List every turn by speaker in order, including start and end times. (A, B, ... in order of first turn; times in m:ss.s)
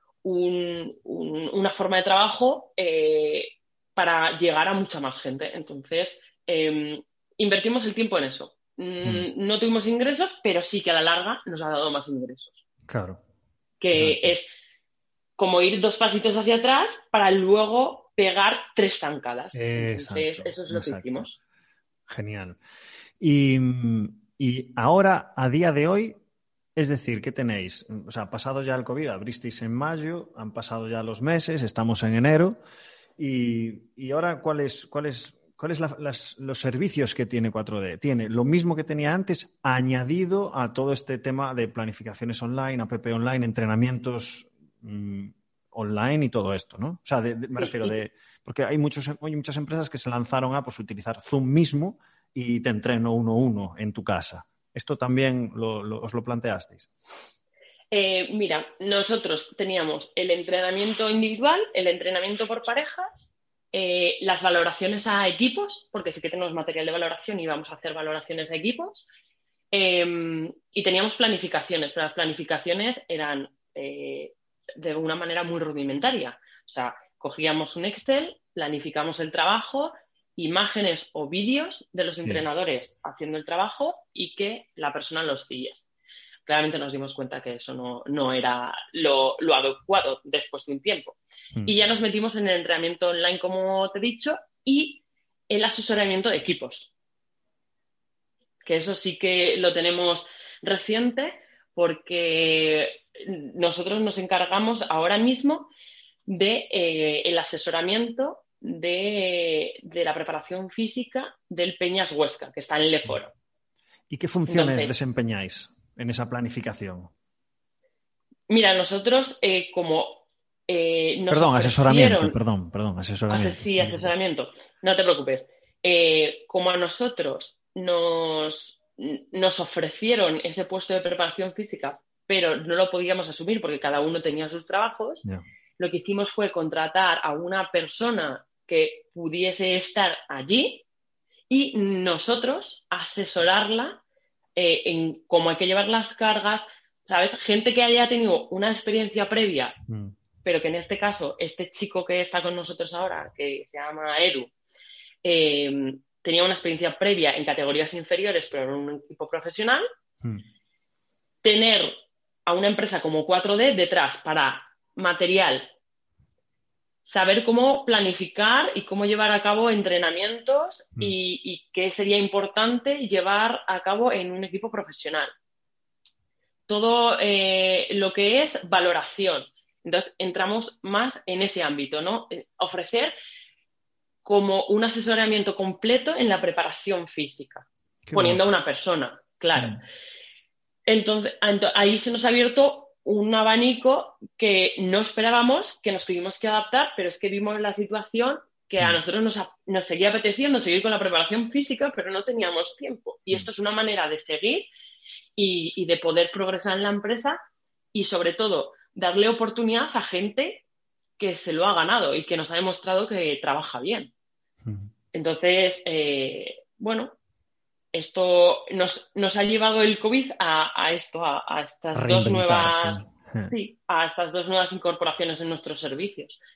0:00.2-0:12.6 A
0:12.9-0:13.2 B
0:13.8-0:14.5 A
0:13.9-0:14.3 B
0:15.4-0:21.3 A
0:19.5-0:21.3 B
0:22.1-0:22.6 B
0:23.2-0:26.2 B
0:26.8-0:32.6 B
0:33.2-0:56.9 B
0:47.6-0:47.9 A
0:57.9-1:09.0 A
1:09.7-1:25.8 A
1:26.4-1:36.9 A
1:38.6-1:45.7 A
1:46.2-1:53.3 A
1:54.1-1:57.1 B
1:54.5-1:54.9 A
1:58.5-2:02.4 A
2:01.3-2:04.1 B
2:03.3-2:15.2 A
2:15.8-2:20.8 A
2:21.5-2:24.0 A
2:24.6-2:29.8 A
2:29.9-2:30.1 B
2:30.4-2:34.5 A
2:35.2-2:39.8 A
2:41.4-2:41.9 A
2:42.4-2:45.7 A
2:47.0-2:55.3 A
2:56.7-3:03.1 A
3:04.2-3:09.8 A
3:08.1-3:08.4 B
3:10.8-3:24.7 A
3:25.4-3:27.4 A
3:27.9-3:30.6 A
3:31.2-3:34.1 A
3:34.6-3:34.9 B
3:35.1-3:37.1 A
3:37.9-3:43.0 A
3:41.9-3:43.5 B
3:43.5-3:46.4 A